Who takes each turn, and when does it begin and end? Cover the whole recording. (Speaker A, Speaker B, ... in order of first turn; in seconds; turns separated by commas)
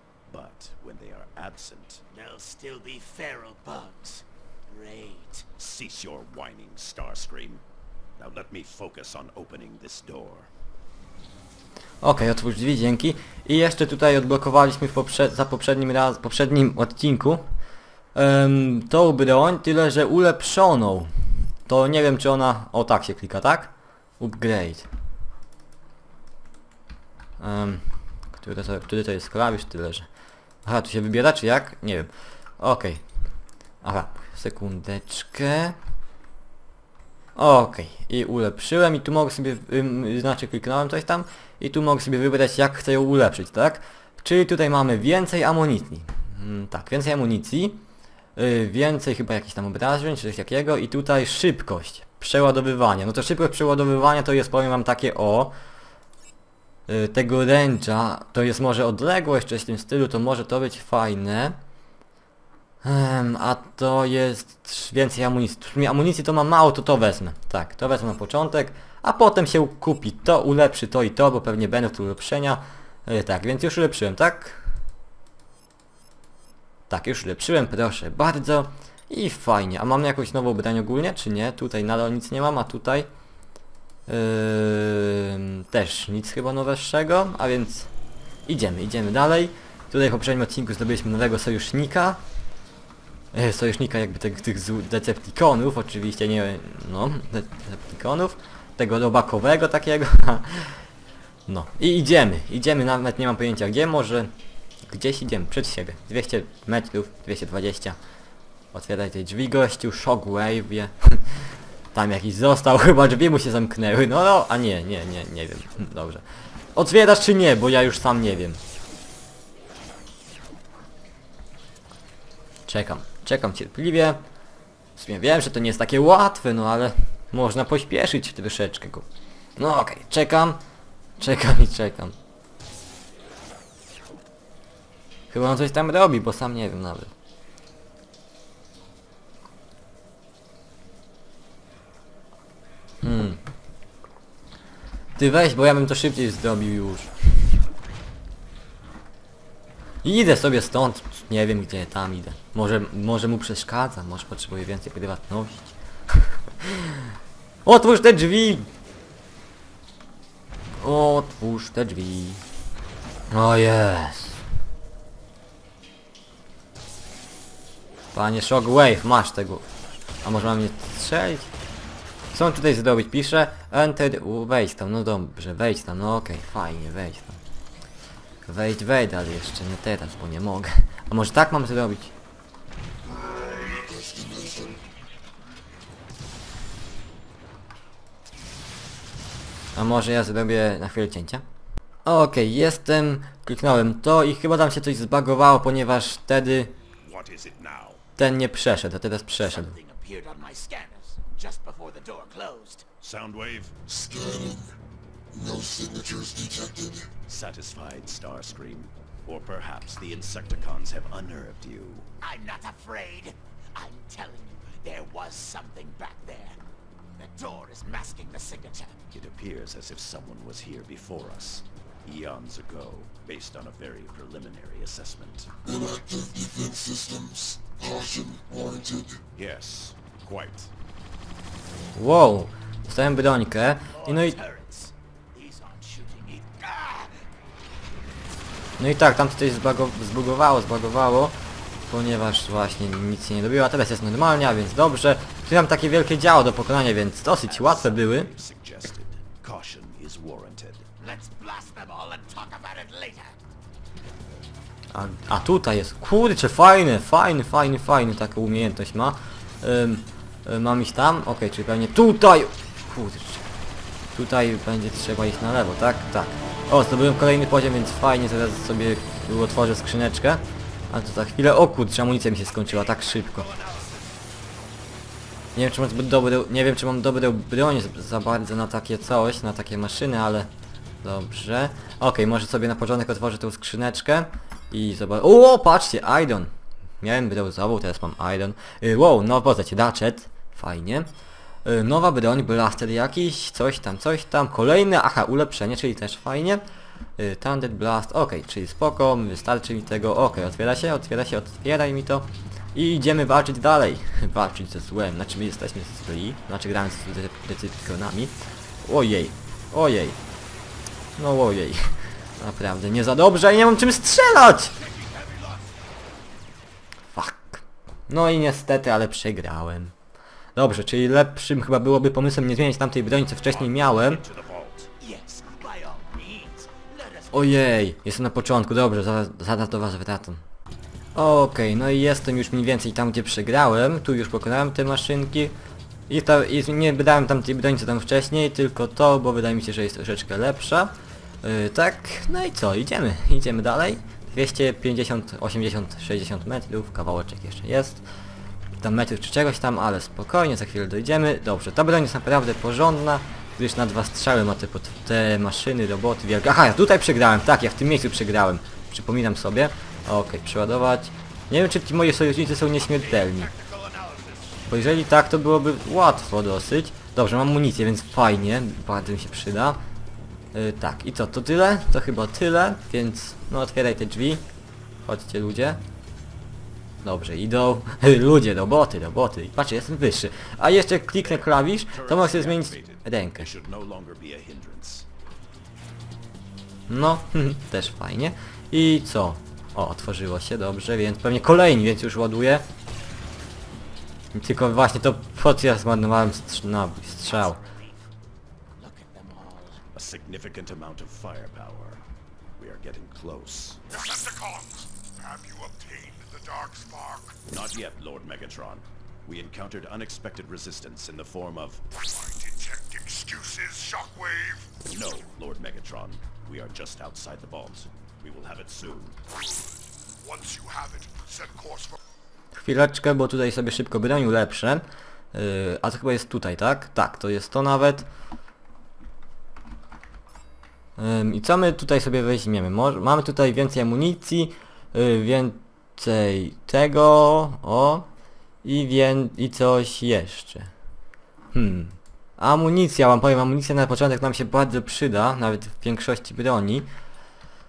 Speaker A: 0.3-2.0, Speaker B: 2.1-5.5, Speaker A: 5.6-7.6, Speaker A: 8.2-10.5, Speaker C: 12.0-17.4, Speaker C: 18.1-21.1, Speaker C: 21.7-24.9, Speaker C: 27.4-30.1, Speaker C: 30.6-33.0, Speaker C: 33.8-35.8, Speaker C: 37.4-47.8, Speaker C: 48.4-55.5, Speaker C: 56.9-61.6, Speaker C: 62.8-74.7, Speaker C: 76.9-83.1, Speaker C: 84.1-87.9, Speaker C: 88.5-92.2, Speaker C: 93.3-100.8, Speaker C: 101.5-104.3, Speaker C: 104.9-108.0, Speaker C: 108.7-111.4, Speaker C: 111.9-116.2, Speaker C: 116.8-118.6, Speaker C: 122.7-124.2, Speaker C: 125.0-129.1, Speaker C: 129.6-130.6, Speaker C: 131.2-132.2, Speaker C: 135.3-137.1, Speaker C: 143.0-143.4, Speaker C: 145.2-147.6, Speaker C: 150.0-157.1, Speaker C: 157.7-158.7, Speaker C: 160.8-162.4, Speaker C: 163.3-164.4, Speaker C: 168.1-169.6, Speaker C: 170.2-171.5, Speaker C: 172.3-177.4, Speaker C: 178.5-182.1, Speaker D: 183.4-184.8, Speaker C: 189.8-191.4, Speaker C: 192.1-196.7, Speaker A: 197.0-198.0, Speaker C: 198.2-199.8, Speaker B: 199.4-202.9, Speaker A: 203.0-203.7, Speaker D: 203.9-204.8, Speaker D: 205.3-207.1, Speaker A: 207.3-212.1, Speaker B: 212.2-216.6, Speaker B: 217.2-219.0, Speaker A: 219.1-225.5, Speaker D: 225.7-229.2, Speaker A: 229.3-230.7, Speaker C: 231.9-234.4, Speaker B: 233.9-237.2, Speaker C: 238.8-241.4, Speaker C: 241.9-248.3, Speaker A: 247.5-250.9, Speaker B: 251.0-253.4, Speaker C: 254.9-263.4, Speaker C: 264.1-273.5, Speaker E: 272.9-274.2, Speaker B: 273.7-274.0, Speaker C: 275.6-280.5, Speaker C: 281.0-291.1, Speaker C: 291.6-296.6, Speaker C: 297.2-310.2, Speaker C: 311.2-314.8, Speaker A: 314.9-315.3, Speaker C: 317.1-319.9, Speaker C: 320.6-324.2, Speaker A: 323.5-324.9, Speaker B: 325.0-327.7, Speaker C: 327.3-330.4, Speaker C: 331.1-335.5, Speaker C: 336.1-348.0, Speaker C: 348.8-363.5, Speaker E: 363.0-364.5, Speaker B: 363.7-364.3, Speaker C: 364.7-369.8, Speaker C: 370.5-374.4, Speaker C: 375.1-375.8, Speaker C: 377.0-383.5, Speaker A: 381.2-385.1, Speaker C: 386.9-392.6, Speaker C: 394.3-397.6, Speaker B: 397.2-398.1, Speaker B: 398.8-399.8, Speaker A: 399.9-402.0, Speaker A: 402.6-403.8, Speaker E: 403.9-407.4, Speaker A: 407.5-411.8, Speaker E: 411.9-414.7, Speaker A: 414.9-419.2, Speaker E: 419.3-422.0, Speaker C: 422.5-428.1, Speaker C: 431.0-438.1, Speaker C: 438.6-440.7, Speaker C: 441.5-446.9